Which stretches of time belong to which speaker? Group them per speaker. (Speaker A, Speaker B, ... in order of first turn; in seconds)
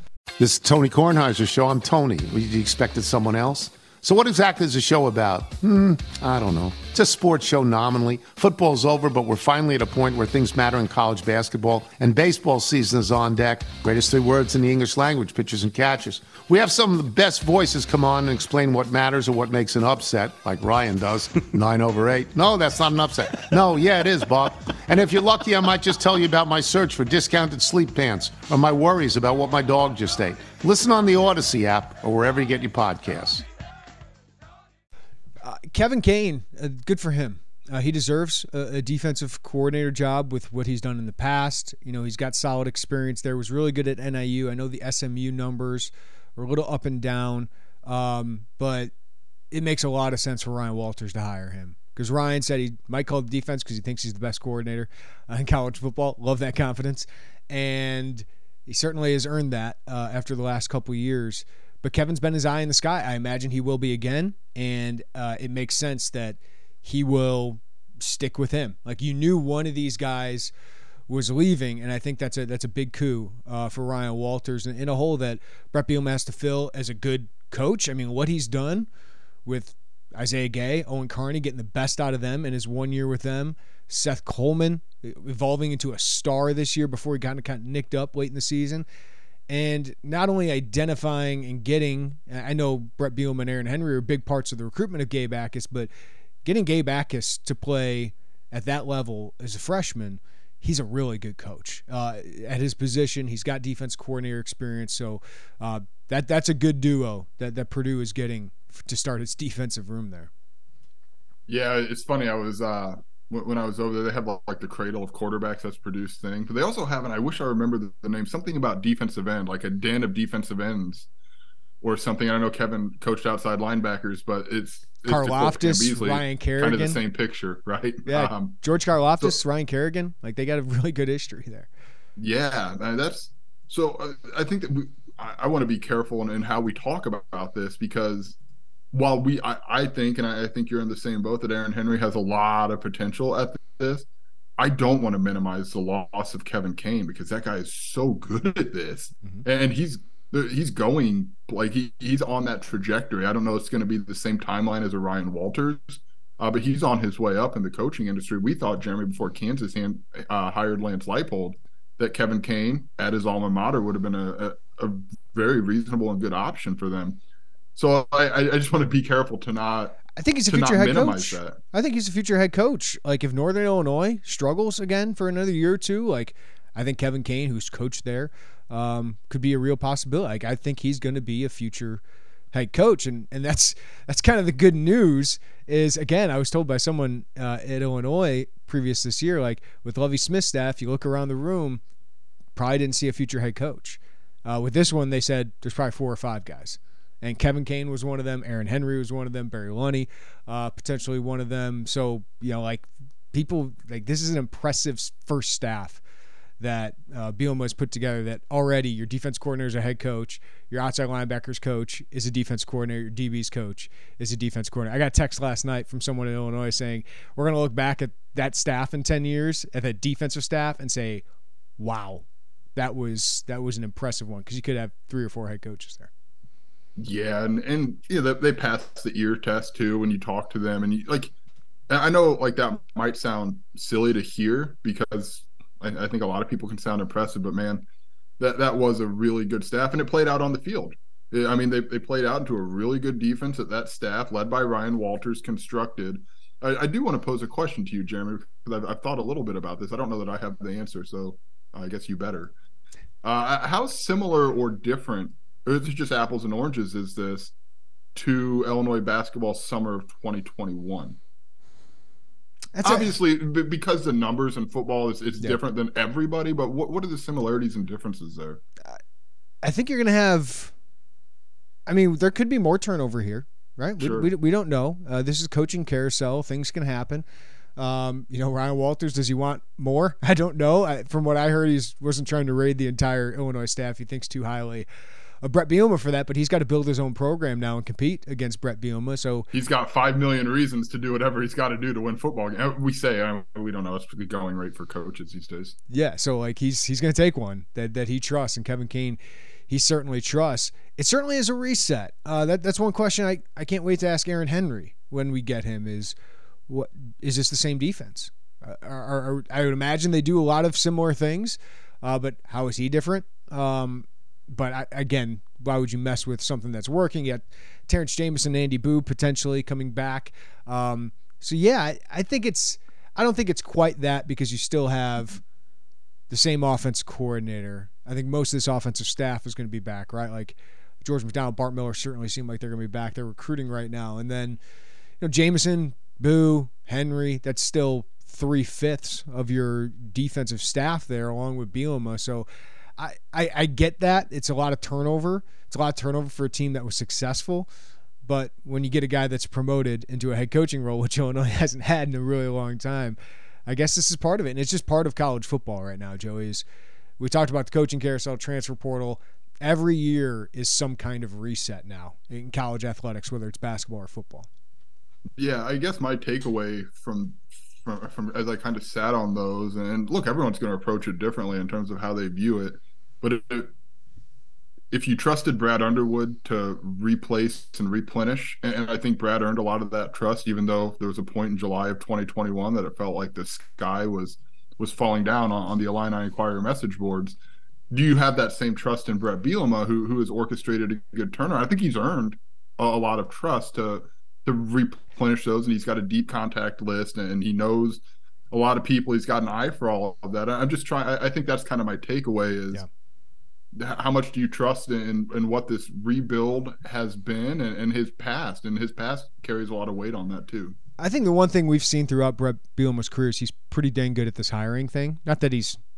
Speaker A: 0.4-33.4
Speaker B: 35.4-48.9, 49.5-70.5, 71.1-78.9, 79.5-88.8, 89.5-95.9, 96.4-110.3, 125.1-127.0, 128.1-131.7, 170.2-191.8, 192.6-206.0, 206.6-221.2, 221.8-222.2, 222.8-226.1, 262.7-263.1, 269.6-270.7, 271.9-277.2, 277.8-284.9, 285.4-289.5, 295.9-306.1, 306.7-325.4, 326.3-334.6, 335.2-342.5, 343.0-347.7, 348.2-356.6, 357.2-364.5, 411.0-415.8
Speaker C: 111.5-121.1, 121.8-128.6, 132.2-138.3, 138.9-144.1, 144.6-167.2, 167.7-171.6, 227.0-231.3, 231.9-237.8, 238.4-252.5, 253.2-257.5, 258.1-261.2, 262.8-268.6, 274.0-274.3, 289.5-295.8, 365.4-373.7, 374.9-387.4, 387.9-402.8, 403.7-410.8